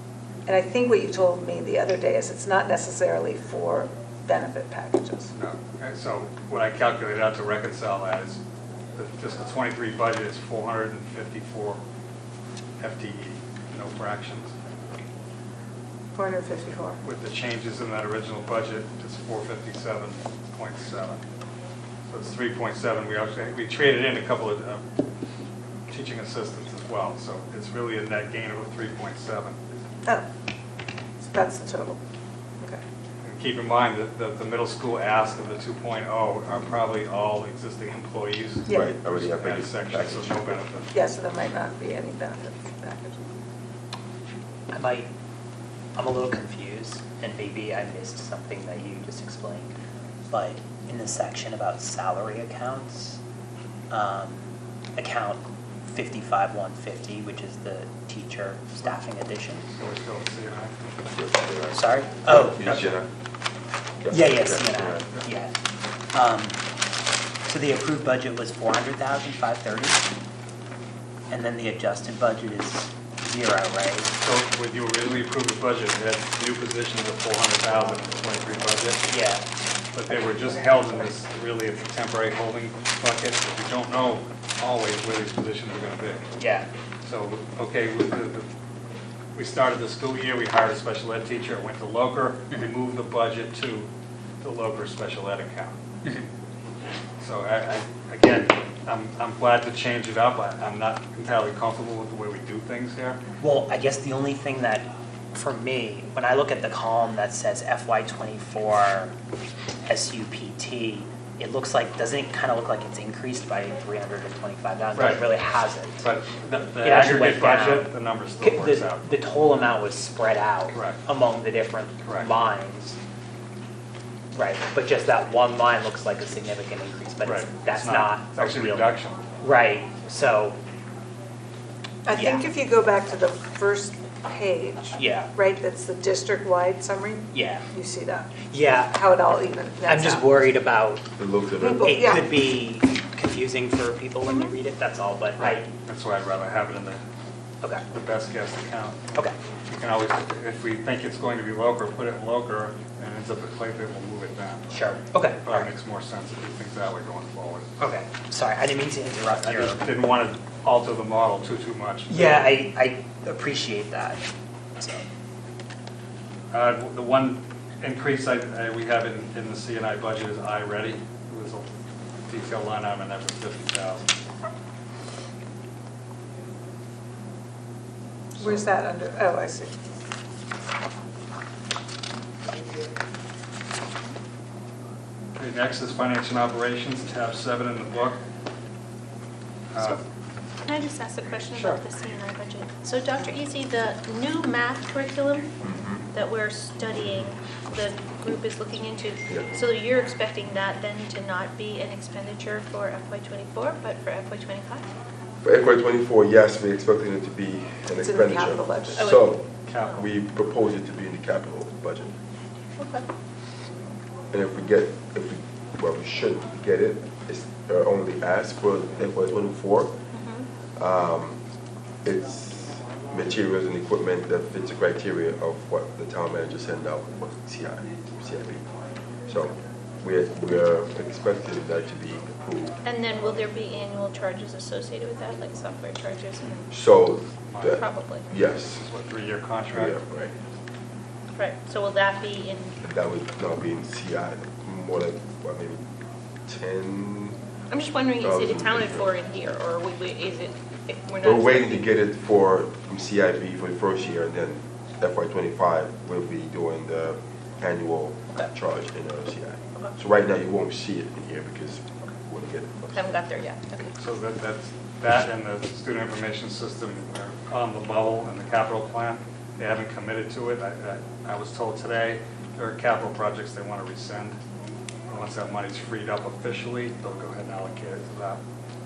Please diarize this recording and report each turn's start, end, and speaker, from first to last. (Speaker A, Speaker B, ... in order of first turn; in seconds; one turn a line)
Speaker A: 0.5-5.3
Speaker B: 5.3-8.4
Speaker B: 8.9-11.8
Speaker B: 12.8-14.5
Speaker A: 16.1-17.0
Speaker B: 17.0-21.2
Speaker B: 22.1-24.8
Speaker B: 25.9-29.6
Speaker A: 31.2-32.0
Speaker B: 33.2-40.9
Speaker A: 38.6-38.9
Speaker C: 38.7-40.5
Speaker A: 40.9-43.2
Speaker D: 44.7-45.1
Speaker D: 45.9-49.7
Speaker D: 50.3-53.2
Speaker D: 53.9-59.7
Speaker B: 59.7-60.9
Speaker C: 61.0-63.1
Speaker D: 61.7-63.0
Speaker C: 64.0-65.1
Speaker D: 64.1-65.5
Speaker D: 66.1-66.6
Speaker D: 67.4-70.1
Speaker D: 71.3-74.1
Speaker B: 74.2-79.0
Speaker D: 79.1-79.4
Speaker B: 79.9-86.3
Speaker D: 86.4-86.7
Speaker B: 87.0-88.5
Speaker B: 89.3-93.9
Speaker B: 94.4-95.8
Speaker B: 97.2-103.2
Speaker D: 103.4-109.1
Speaker D: 109.8-116.1
Speaker B: 114.9-115.3
Speaker B: 116.0-119.2
Speaker D: 116.8-123.0
Speaker B: 120.7-121.0
Speaker B: 122.0-122.3
Speaker D: 124.3-130.6
Speaker B: 127.2-129.2
Speaker A: 132.0-140.6
Speaker D: 132.1-132.5
Speaker D: 134.9-135.3
Speaker D: 137.3-137.6
Speaker D: 138.5-139.0
Speaker D: 139.8-141.1
Speaker C: 141.2-141.9
Speaker A: 141.6-142.3
Speaker D: 141.7-145.7
Speaker B: 145.4-147.0
Speaker B: 147.9-154.8
Speaker D: 154.7-155.7
Speaker B: 155.4-157.7
Speaker D: 157.8-159.8
Speaker B: 159.3-162.5
Speaker D: 162.1-164.3
Speaker D: 164.8-165.1
Speaker B: 166.5-171.7
Speaker B: 172.3-174.1
Speaker A: 178.4-179.7
Speaker B: 185.3-188.2
Speaker B: 189.7-190.0
Speaker E: 190.7-195.5
Speaker B: 191.5-191.8
Speaker C: 195.6-196.1
Speaker E: 196.1-204.8
Speaker C: 205.4-212.1
Speaker A: 208.0-209.1
Speaker E: 209.0-209.3
Speaker B: 209.7-210.0
Speaker E: 212.8-213.0
Speaker C: 214.3-219.9
Speaker E: 220.1-220.4
Speaker C: 220.8-221.4
Speaker C: 222.0-228.7
Speaker C: 229.3-232.8
Speaker E: 232.8-236.7
Speaker C: 236.7-238.8
Speaker B: 237.4-237.8
Speaker E: 237.7-238.2
Speaker B: 238.5-240.0
Speaker C: 239.7-240.3
Speaker E: 241.3-242.8
Speaker C: 242.8-245.8
Speaker C: 246.5-247.4
Speaker E: 247.7-251.8
Speaker C: 248.2-249.1
Speaker C: 251.2-263.2
Speaker E: 262.9-263.9
Speaker B: 264.0-274.4
Speaker B: 275.1-278.4